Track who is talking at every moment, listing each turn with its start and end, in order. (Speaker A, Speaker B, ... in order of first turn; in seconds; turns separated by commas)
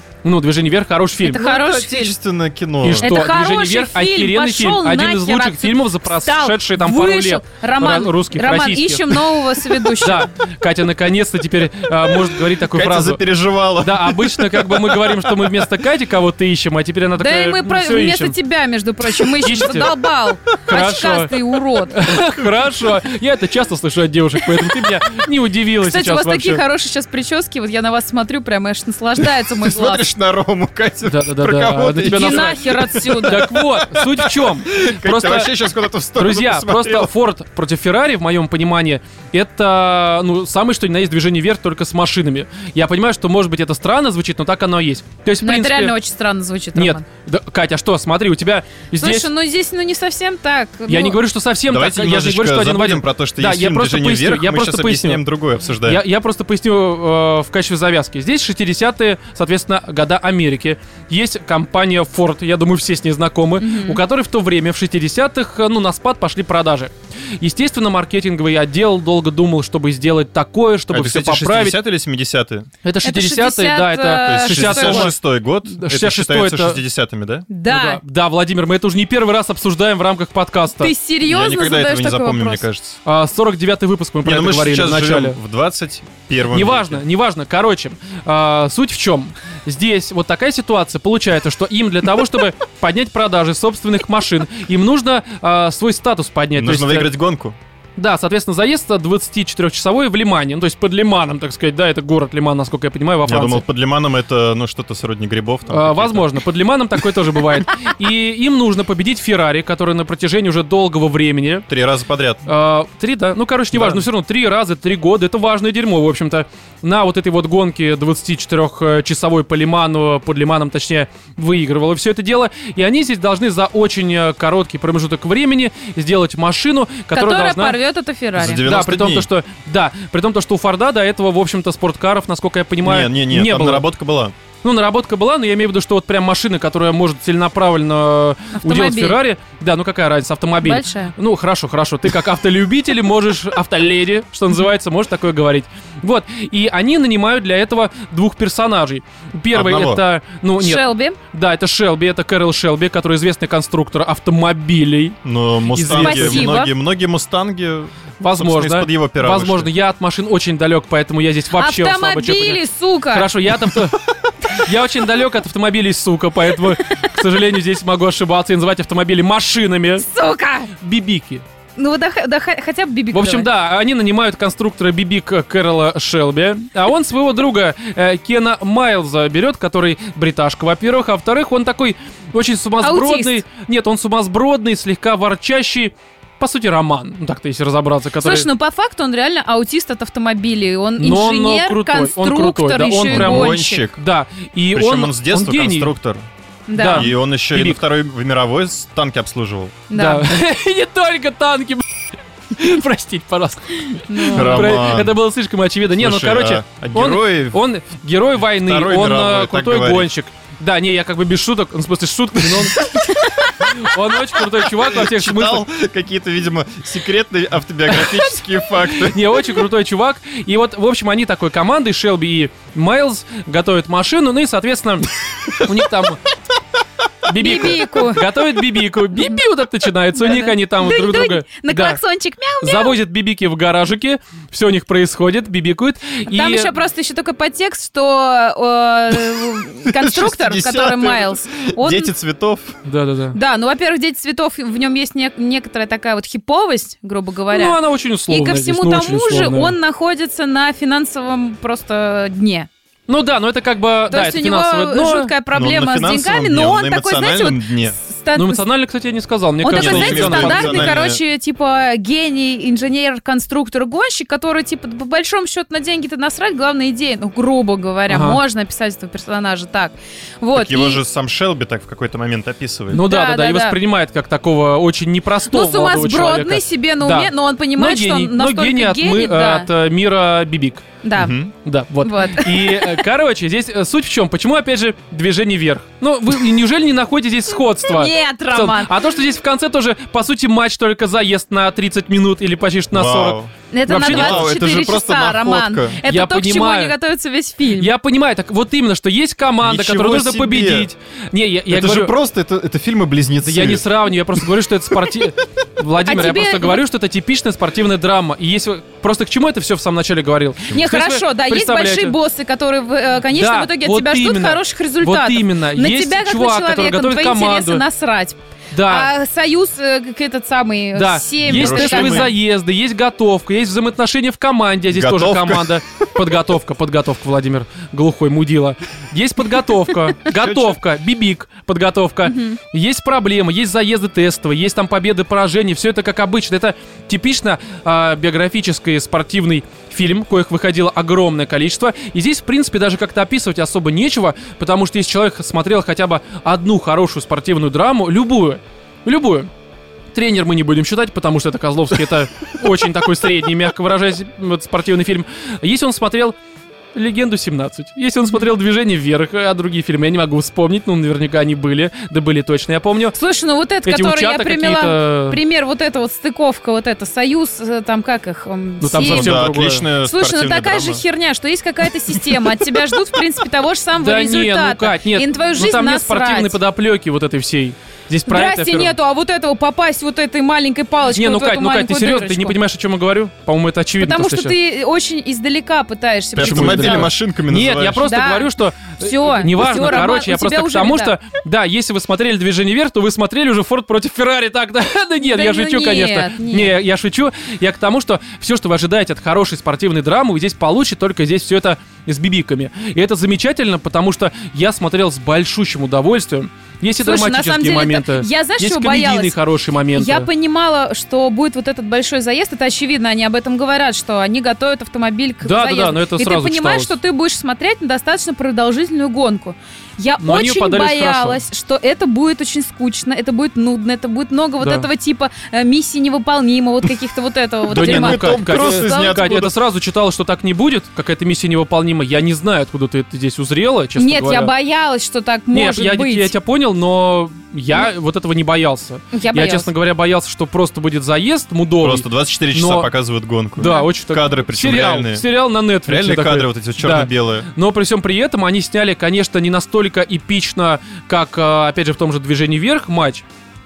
Speaker A: 0.2-1.4, Speaker B: 1.2-2.1, Speaker C: 1.4-3.1, Speaker A: 2.8-13.2, Speaker B: 3.0-10.3, Speaker C: 12.5-15.7, Speaker A: 13.8-18.4, Speaker B: 17.2-22.2, Speaker A: 19.4-20.0, Speaker A: 20.7-26.6, Speaker B: 25.8-30.1, Speaker C: 29.2-37.1, Speaker A: 31.1-35.5, Speaker B: 32.0-33.5, Speaker A: 36.2-45.9, Speaker B: 45.4-47.0, Speaker A: 46.8-49.3, Speaker B: 49.0-51.2, Speaker A: 50.9-55.2, Speaker C: 51.7-56.0, Speaker A: 55.9-71.8, Speaker B: 63.6-64.0, Speaker C: 70.9-72.7, Speaker A: 72.8-76.8, Speaker B: 73.0-75.1, Speaker C: 74.2-77.5, Speaker B: 77.5-78.0, Speaker A: 77.7-80.9, Speaker B: 80.8-82.6, Speaker C: 81.2-83.0, Speaker A: 83.0-85.4, Speaker C: 84.2-87.0, Speaker A: 86.5-97.2, Speaker C: 96.5-97.6, Speaker A: 98.0-103.7, Speaker C: 103.2-106.3, Speaker A: 105.7-111.7, Speaker C: 111.7-112.5, Speaker A: 112.5-127.8, Speaker C: 113.7-114.0, Speaker B: 127.1-128.6, Speaker C: 128.4-129.3, Speaker A: 128.6-133.9, Speaker C: 132.8-134.3, Speaker A: 134.6-155.2, Speaker B: 138.6-139.2, Speaker B: 140.6-141.1, Speaker C: 149.5-150.0, Speaker B: 150.6-151.2, Speaker C: 155.2-159.7, Speaker A: 155.7-156.6, Speaker B: 155.9-156.7, Speaker A: 158.2-170.1, Speaker B: 161.6-163.3, Speaker B: 170.0-170.7, Speaker A: 170.8-171.4, Speaker B: 171.8-173.5, Speaker A: 173.1-188.5, Speaker B: 182.8-183.4, Speaker B: 188.2-193.8, Speaker A: 191.0-195.9, Speaker C: 193.1-194.0, Speaker C: 194.7-196.3, Speaker B: 196.7-197.1, Speaker A: 196.7-197.8, Speaker C: 196.9-199.8, Speaker B: 199.9-200.3, Speaker A: 199.9-201.9, Speaker A: 202.6-215.7, Speaker B: 204.1-204.8, Speaker C: 204.3-205.2, Speaker C: 206.0-207.6, Speaker C: 208.5-210.1, Speaker C: 214.6-219.3, Speaker A: 217.9-218.2, Speaker A: 218.8-226.2, Speaker A: 227.2-232.0, Speaker B: 227.3-229.4, Speaker B: 230.2-233.0, Speaker A: 232.6-236.7, Speaker B: 236.3-242.1, Speaker C: 239.9-242.8, Speaker A: 242.8-243.4, Speaker B: 243.3-252.7, Speaker A: 247.5-249.8, Speaker A: 253.1-255.3, Speaker B: 254.1-258.6, Speaker C: 255.5-258.0, Speaker A: 258.4-260.9, Speaker B: 259.6-271.0, Speaker C: 259.7-261.2, Speaker A: 268.1-268.4, Speaker C: 270.5-273.1, Speaker A: 272.9-280.9, Speaker B: 273.0-273.8, Speaker B: 275.5-279.7, Speaker B: 281.0-281.4, Speaker C: 281.2-281.5, Speaker A: 281.6-294.5, Speaker B: 282.0-283.0, Speaker B: 287.9-289.0, Speaker C: 292.9-296.0, Speaker B: 293.7-297.9, Speaker A: 296.1-296.9, Speaker A: 297.8-302.1, Speaker C: 299.6-300.9, Speaker C: 301.7-304.5, Speaker A: 303.4-312.2, Speaker B: 306.0-306.8, Speaker B: 310.7-322.3, Speaker A: 313.3-317.8, Speaker A: 318.7-319.1, Speaker A: 320.9-349.5, Speaker C: 321.4-322.3, Speaker C: 324.9-326.1, Speaker C: 330.3-330.8, Speaker B: 332.3-332.6, Speaker A: 350.1-356.4, Speaker A: 356.9-363.2, Speaker B: 363.2-376.6, Speaker A: 363.9-365.4, Speaker A: 368.8-369.9, Speaker C: 369.1-371.0, Speaker A: 374.0-378.9, Speaker B: 378.3-382.6, Speaker A: 381.1-384.6, Speaker B: 384.0-387.1, Speaker C: 386.4-388.1, Speaker A: 386.4-410.3, Speaker B: 388.0-391.1, Speaker B: 395.2-396.8, Speaker B: 407.0-409.4, Speaker B: 409.9-429.4, Speaker A: 415.4-416.9, Speaker A: 420.2-421.4, Speaker A: 424.6-424.9, Speaker A: 427.7-434.5, Speaker C: 427.7-429.5, Speaker B: 434.0-436.3, Speaker A: 435.5-442.9, Speaker B: 439.1-439.7, Speaker C: 441.8-445.3, Speaker A: 443.6-453.2, Speaker B: 443.6-443.9, Speaker C: 445.9-447.5